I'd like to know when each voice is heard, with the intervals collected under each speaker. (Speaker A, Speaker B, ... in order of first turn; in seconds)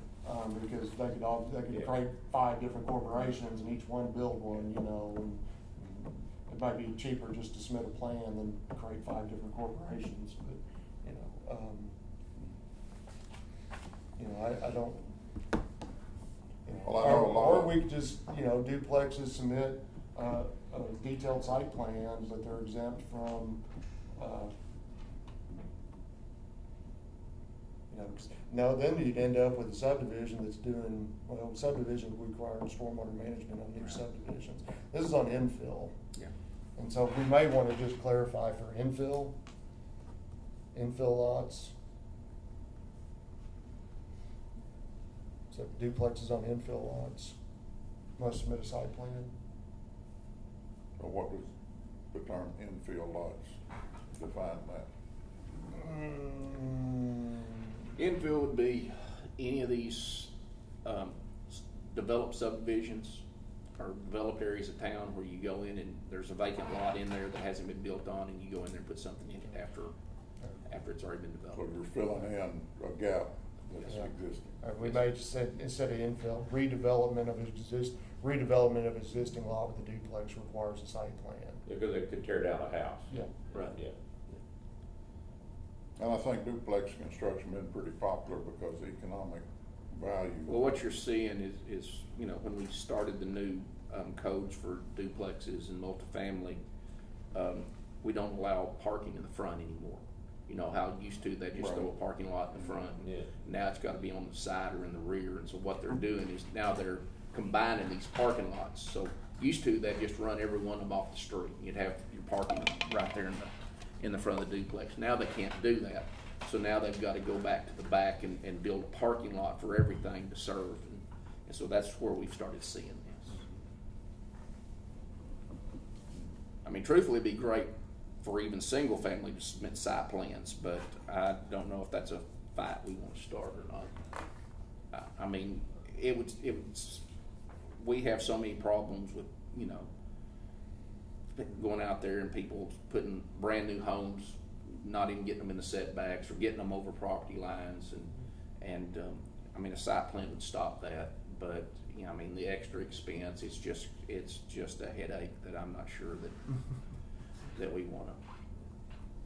Speaker A: 0.2-12.0, 14.2-15.2, 16.6-23.6, 24.1-24.5, 27.9-36.0, 36.8-39.4, 40.7-41.7, 45.5-47.4, 48.2-49.3, 55.7-57.9, 74.6-81.6
Speaker B: 16.8-17.8, 51.0-51.5, 52.1-53.6, 54.1-54.9, 71.5-74.6, 86.0-90.6, 101.6-101.9
Speaker C: 57.9-60.3, 60.8-63.2, 63.8-69.9, 70.6-71.8, 90.5-96.6, 97.3-123.4, 126.6-133.9, 134.9-137.0, 137.8-139.9, 141.3-156.4, 157.5-158.2
Speaker D: 81.7-83.9, 102.8-103.3